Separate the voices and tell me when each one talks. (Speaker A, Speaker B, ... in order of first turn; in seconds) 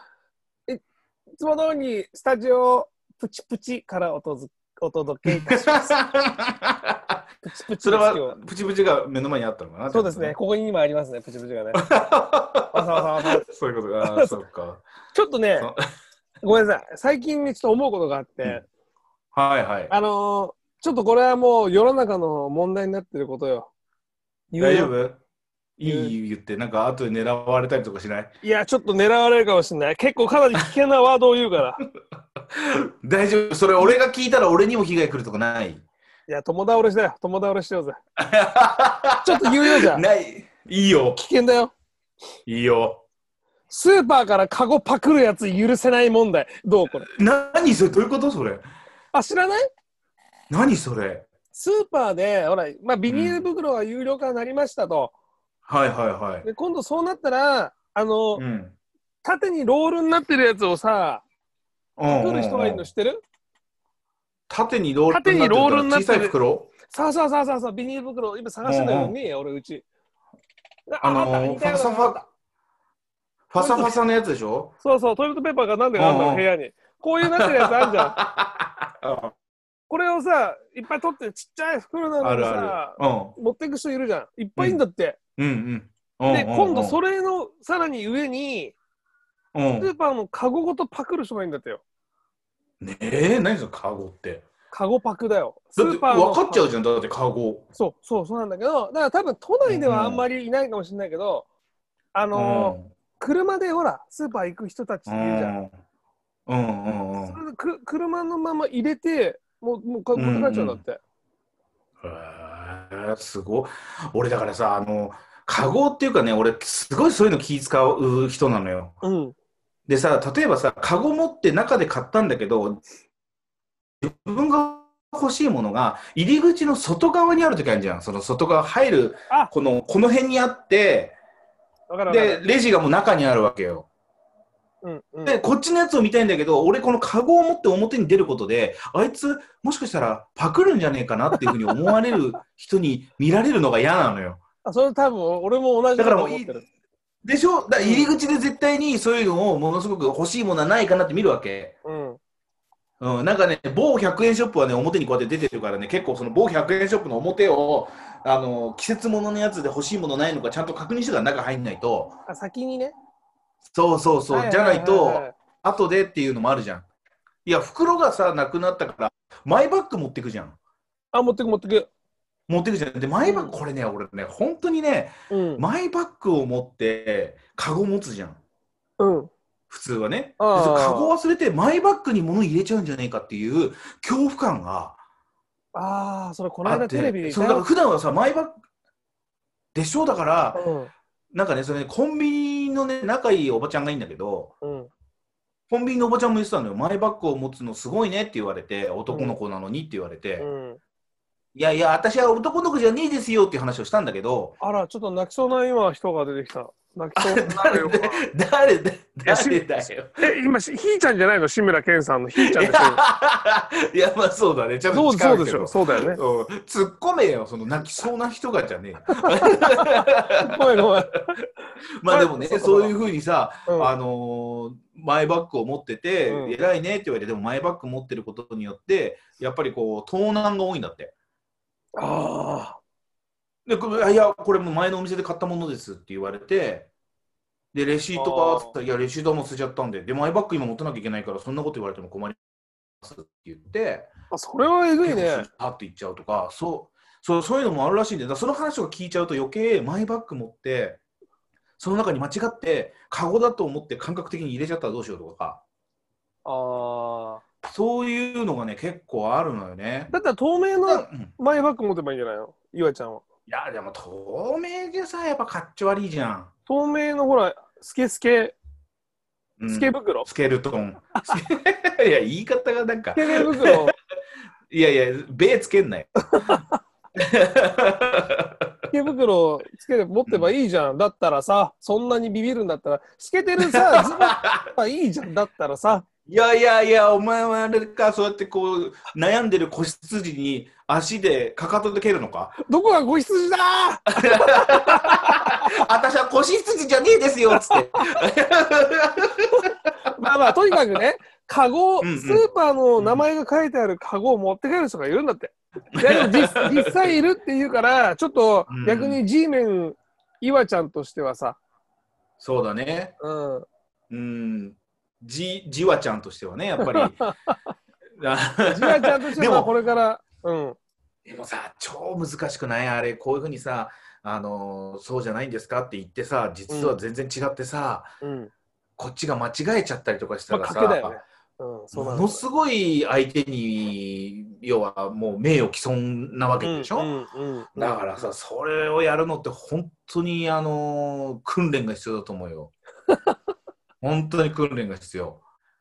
Speaker A: 1.4-6.0, 7.4-8.4, 9.9-11.8, 12.7-13.4, 14.0-14.3, 15.1-15.7, 16.4-18.6, 19.9-23.7, 24.5-24.9, 25.8-26.1, 28.4-31.8, 36.3-38.0, 39.2-40.0, 41.1-41.7, 43.7-47.1, 49.1-49.7, 51.5-55.1, 56.4-58.4, 59.2-61.2, 62.1-63.2, 65.1-69.8, 70.9-72.3, 73.5-74.0, 74.8-78.2, 79.9-85.2, 86.3-88.7, 89.8-91.8, 94.7-96.7, 97.8-101.5, 102.1-105.5, 107.2-111.0, 119.0-119.3, 131.9-132.4, 134.8-135.4, 144.6-146.6, 147.8-148.1, 151.8-152.2, 162.3-162.9, 164.3-165.4, 171.1-171.9, 173.2-173.6, 175.3-175.6, 179.0-179.3, 180.4-181.1, 185.7-187.6, 190.5-190.9, 194.6-194.9, 199.1-199.4, 200.4-200.8, 204.6-208.2, 209.2-209.6, 210.2-213.0, 214.9-216.2, 220.4-221.3, 222.1-222.9, 226.2-226.6, 232.0-232.8, 238.1-238.7, 244.3-245.4, 256.4-257.4, 260.1-263.2, 266.7-268.6, 269.7-270.3, 273.1-273.9, 276.3-276.7, 278.9-286.0, 292.6-295.7, 297.6-298.2, 299.6-311.6, 313.2-313.6, 316.8-317.6, 318.7-320.8, 326.7-326.9, 328.2-328.5, 330.5-332.4, 336.6-338.0
Speaker B: 5.3-7.2, 7.8-10.3, 11.8-12.8, 13.4-14.8, 19.3-19.9, 24.6-25.2, 25.8-28.3, 32.5-35.8, 38.2-41.2, 42.5-43.0, 47.0-48.6, 50.5-51.3, 53.1-53.4, 55.7-56.5, 58.4-58.7, 62.0-62.9, 64.5-66.7, 68.6-69.1, 71.0-72.2, 73.5-74.7, 76.0-76.5, 77.3-79.3, 82.2-83.3, 85.4-87.0, 89.5-89.9, 92.8-94.5, 95.8-97.6, 99.6-100.2, 102.3-102.9, 105.1-105.8, 106.5-107.4, 110.1-110.8, 112.0-119.0, 119.9-122.8, 124.0-131.2, 132.1-133.9, 135.2-144.4, 145.9-146.6, 147.2-151.7, 153.0-162.2, 163.7-166.8, 167.4-170.6, 172.5-178.4, 179.7-185.0, 186.6-188.5, 189.7-190.6, 191.3-194.5, 195.7-200.5, 201.5-204.6, 207.2-210.2, 212.4-220.8, 222.0-231.1, 233.7-236.9, 237.7-242.4, 243.0-244.1, 245.0-251.0, 251.8-255.6, 257.6-260.1, 260.9-261.3, 263.5-266.5, 269.6-273.9, 274.7-276.6, 277.2-278.7, 280.3-280.5, 283.6-284.6, 286.3-292.6, 294.2-299.7, 302.0-302.4, 303.0-303.2, 306.0-307.1, 308.7-309.2, 312.4-313.1, 314.1-317.2, 318.2-319.7, 321.2-328.1, 329.0-331.2, 331.9-337.1, 337.7-342.7, 344.0-345.4